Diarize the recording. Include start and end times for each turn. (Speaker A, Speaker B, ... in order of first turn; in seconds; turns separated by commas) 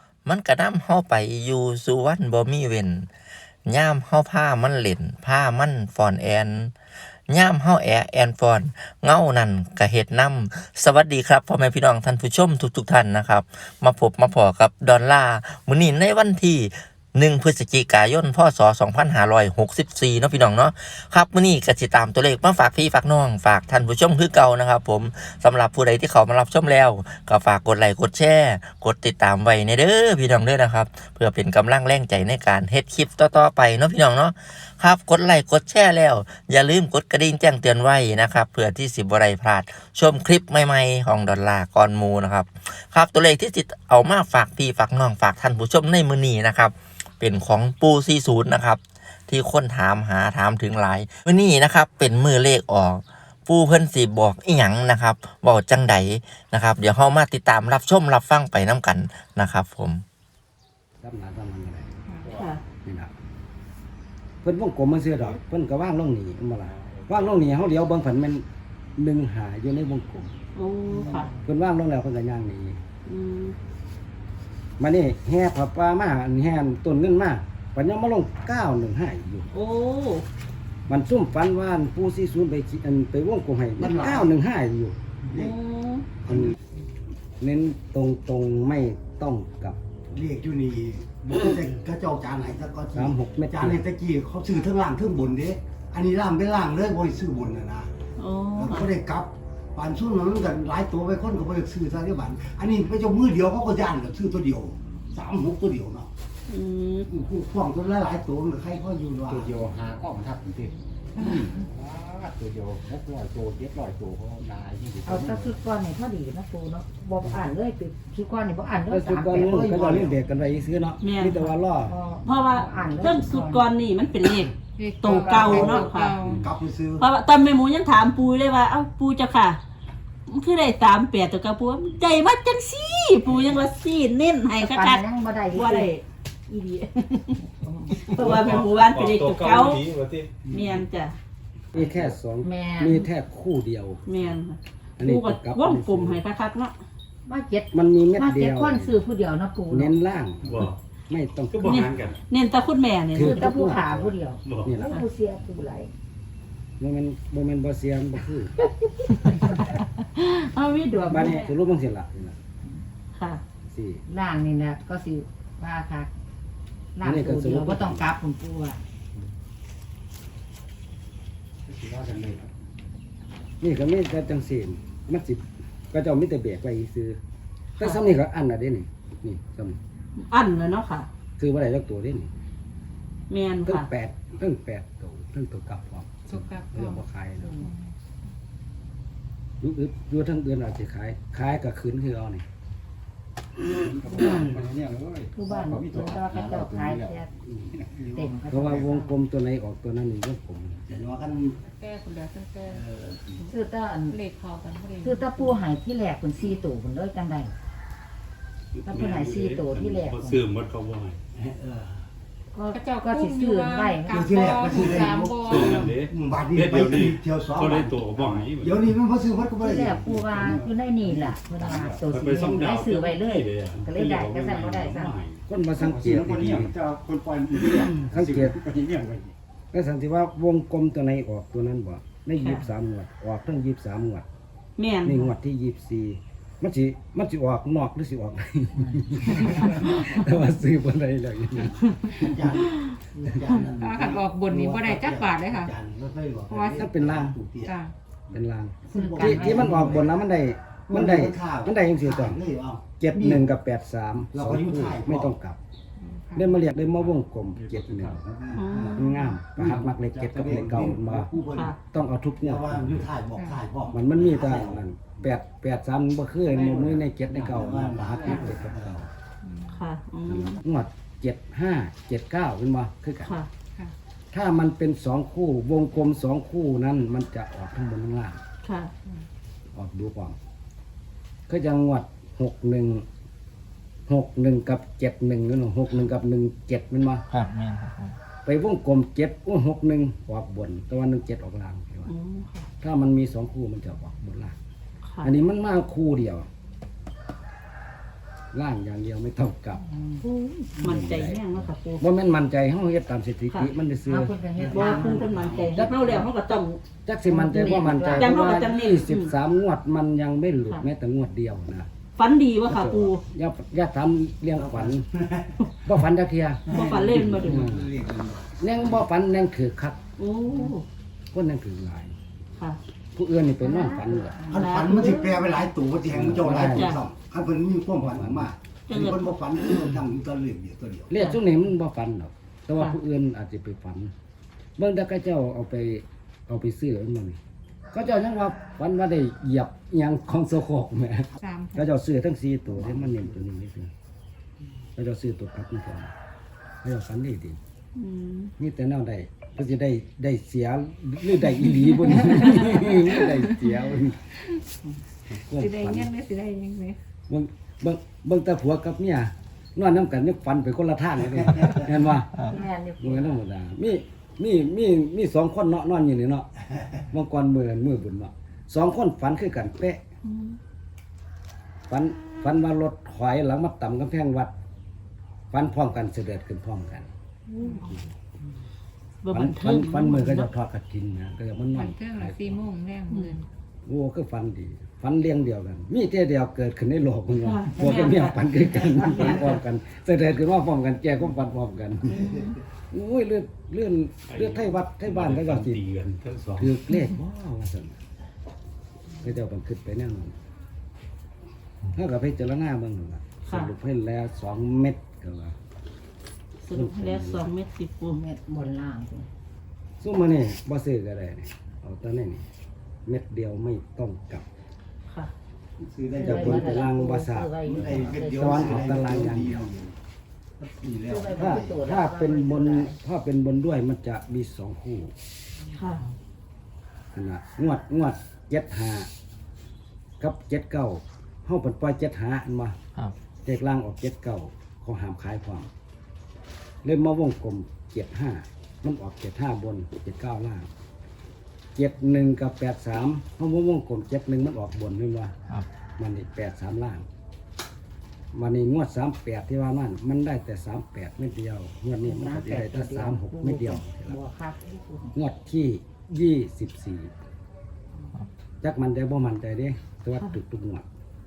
Speaker A: 0.3-3.1, Speaker A: 3.7-6.7, Speaker A: 7.3-60.0, Speaker B: 61.0-62.0, Speaker C: 62.3-62.6, Speaker B: 62.8-63.1, Speaker B: 64.4-68.5, Speaker D: 66.9-67.6, Speaker B: 69.0-70.3, Speaker C: 70.6-71.3, Speaker B: 71.4-72.8, Speaker C: 73.1-73.6, Speaker B: 74.8-79.5, Speaker C: 79.5-80.2, Speaker B: 80.9-85.0, Speaker E: 83.8-84.3, Speaker C: 85.3-86.1, Speaker B: 86.3-86.5, Speaker E: 86.3-86.5, Speaker B: 87.4-90.1, Speaker E: 90.1-97.9, Speaker B: 92.9-93.8, Speaker C: 98.2-98.9, Speaker E: 98.6-106.1, Speaker C: 106.5-107.1, Speaker E: 107.1-109.6, Speaker D: 109.2-115.6, Speaker F: 115.0-119.9, Speaker B: 118.9-122.0, Speaker E: 119.5-120.1, Speaker C: 121.0-121.4, Speaker F: 121.8-123.7, Speaker C: 122.2-126.2, Speaker G: 124.8-126.5, Speaker E: 125.0-127.0, Speaker C: 127.0-129.6, Speaker C: 130.3-137.4, Speaker F: 134.6-135.9, Speaker F: 137.4-138.0, Speaker C: 138.0-139.8, Speaker H: 138.0-140.5, Speaker C: 140.5-141.2, Speaker B: 141.7-144.3, Speaker F: 142.4-143.0, Speaker C: 144.1-146.7, Speaker B: 145.0-146.2, Speaker F: 147.3-150.0, Speaker B: 147.7-149.0, Speaker B: 149.7-152.0, Speaker H: 150.4-150.8, Speaker H: 151.5-152.2, Speaker C: 151.6-153.4, Speaker B: 153.1-155.0, Speaker F: 153.1-155.9, Speaker H: 154.4-154.7, Speaker B: 156.8-158.5, Speaker F: 158.8-159.5, Speaker C: 160.0-161.5, Speaker B: 161.1-162.4, Speaker C: 163.2-163.4, Speaker B: 163.7-164.1, Speaker F: 164.1-166.1, Speaker F: 167.0-168.8, Speaker B: 167.0-168.1, Speaker D: 171.7-172.5, Speaker B: 173.6-177.2, Speaker B: 177.8-179.8, Speaker C: 180.2-181.1, Speaker B: 181.4-182.3, Speaker C: 183.3-183.9, Speaker B: 183.7-187.6, Speaker G: 186.3-187.0, Speaker F: 187.4-187.7, Speaker G: 187.6-187.9, Speaker B: 189.6-192.5, Speaker D: 193.8-197.2, Speaker F: 195.3-197.3, Speaker E: 197.9-198.9, Speaker F: 198.1-199.1, Speaker B: 198.5-200.8, Speaker E: 200.8-201.7, Speaker G: 201.7-202.8, Speaker E: 202.7-203.5, Speaker F: 203.5-204.2, Speaker G: 204.1-205.6, Speaker F: 205.0-207.5, Speaker H: 208.7-211.2, Speaker F: 208.8-210.4, Speaker E: 211.3-212.1, Speaker F: 212.5-214.2, Speaker G: 212.7-215.7, Speaker E: 214.1-220.2, Speaker H: 215.5-218.9, Speaker F: 219.6-225.2, Speaker D: 220.1-222.1, Speaker H: 222.1-225.4, Speaker B: 225.5-226.8, Speaker D: 225.8-229.3, Speaker B: 228.0-228.6, Speaker B: 229.7-234.3, Speaker C: 232.4-232.7, Speaker C: 234.8-235.3, Speaker B: 235.0-242.2, Speaker F: 238.8-239.4, Speaker E: 242.2-247.8, Speaker G: 243.7-245.7, Speaker G: 246.5-246.9, Speaker B: 246.7-247.4, Speaker G: 247.6-247.9, Speaker B: 248.3-252.4, Speaker E: 248.9-250.1, Speaker F: 248.9-249.9, Speaker E: 250.9-253.5, Speaker B: 253.0-255.6, Speaker E: 254.3-255.3, Speaker G: 256.0-256.6, Speaker B: 256.4-258.2, Speaker D: 257.6-258.9, Speaker E: 258.5-259.0, Speaker C: 258.5-259.1, Speaker B: 258.9-261.3, Speaker D: 259.5-261.0, Speaker E: 259.6-259.9, Speaker E: 260.4-261.8, Speaker C: 261.5-261.8, Speaker B: 261.9-263.1, Speaker E: 262.4-264.8, Speaker G: 263.4-263.6, Speaker B: 263.9-269.0, Speaker D: 266.9-268.8, Speaker E: 267.5-269.1, Speaker G: 269.4-269.8, Speaker C: 269.7-270.6, Speaker B: 270.3-273.3, Speaker C: 273.2-273.5, Speaker B: 274.3-278.4, Speaker C: 278.6-278.9, Speaker B: 279.7-280.4, Speaker B: 281.5-283.1, Speaker B: 284.1-287.2, Speaker A: 287.3-288.1, Speaker B: 288.4-292.1, Speaker C: 292.1-292.7, Speaker B: 292.8-294.6, Speaker C: 295.1-295.3, Speaker B: 295.2-296.5, Speaker B: 298.5-299.8, Speaker F: 299.8-301.0, Speaker C: 300.8-302.0, Speaker B: 300.8-304.4, Speaker F: 304.1-305.4, Speaker E: 304.6-305.9, Speaker C: 304.6-306.8, Speaker B: 305.7-306.3, Speaker B: 307.1-311.9, Speaker F: 307.3-308.7, Speaker C: 308.2-309.3, Speaker C: 312.2-313.2, Speaker B: 312.7-315.1, Speaker E: 314.6-315.7, Speaker B: 315.8-316.7, Speaker C: 316.7-317.7, Speaker E: 316.7-319.0, Speaker B: 317.2-317.9, Speaker B: 318.6-320.0, Speaker C: 320.2-320.8, Speaker B: 321.3-322.1, Speaker B: 323.1-324.4, Speaker F: 323.6-325.7, Speaker E: 324.5-331.1, Speaker C: 324.5-325.3, Speaker B: 326.1-327.0, Speaker C: 326.5-327.0, Speaker B: 328.0-328.5, Speaker C: 328.9-329.3, Speaker B: 331.1-334.1, Speaker B: 334.8-337.4, Speaker B: 337.9-343.9, Speaker G: 341.4-341.9, Speaker B: 345.0-346.1, Speaker B: 346.8-347.6, Speaker C: 348.0-348.5, Speaker B: 348.6-354.3, Speaker B: 355.3-356.1, Speaker G: 355.6-357.0, Speaker B: 357.3-362.5, Speaker F: 362.5-363.3, Speaker B: 363.0-366.5, Speaker B: 367.1-370.0, Speaker C: 370.3-370.6, Speaker B: 371.9-374.6, Speaker B: 375.5-377.1, Speaker C: 377.6-377.9, Speaker G: 377.6-377.9, Speaker C: 379.2-380.5, Speaker B: 379.3-382.6, Speaker G: 381.7-383.4, Speaker C: 383.1-383.4, Speaker B: 383.9-395.8, Speaker C: 387.4-389.6, Speaker H: 394.3-396.7, Speaker B: 396.6-398.0, Speaker B: 399.2-400.4, Speaker B: 401.9-405.6, Speaker C: 403.5-403.7, Speaker C: 406.7-408.2, Speaker B: 406.7-407.5, Speaker F: 408.1-409.3, Speaker B: 410.0-412.5, Speaker B: 413.1-414.5, Speaker E: 415.8-416.8, Speaker F: 416.1-419.1, Speaker B: 416.2-419.7, Speaker E: 417.6-420.0, Speaker E: 420.6-421.8, Speaker F: 421.1-423.0, Speaker B: 421.3-425.1, Speaker C: 425.7-426.1, Speaker B: 427.1-429.1, Speaker B: 430.2-432.8, Speaker B: 433.4-435.7, Speaker B: 436.8-440.7, Speaker B: 441.8-445.3, Speaker B: 446.0-447.1, Speaker B: 448.3-454.2, Speaker F: 452.0-455.1, Speaker B: 455.1-457.1, Speaker B: 458.6-460.9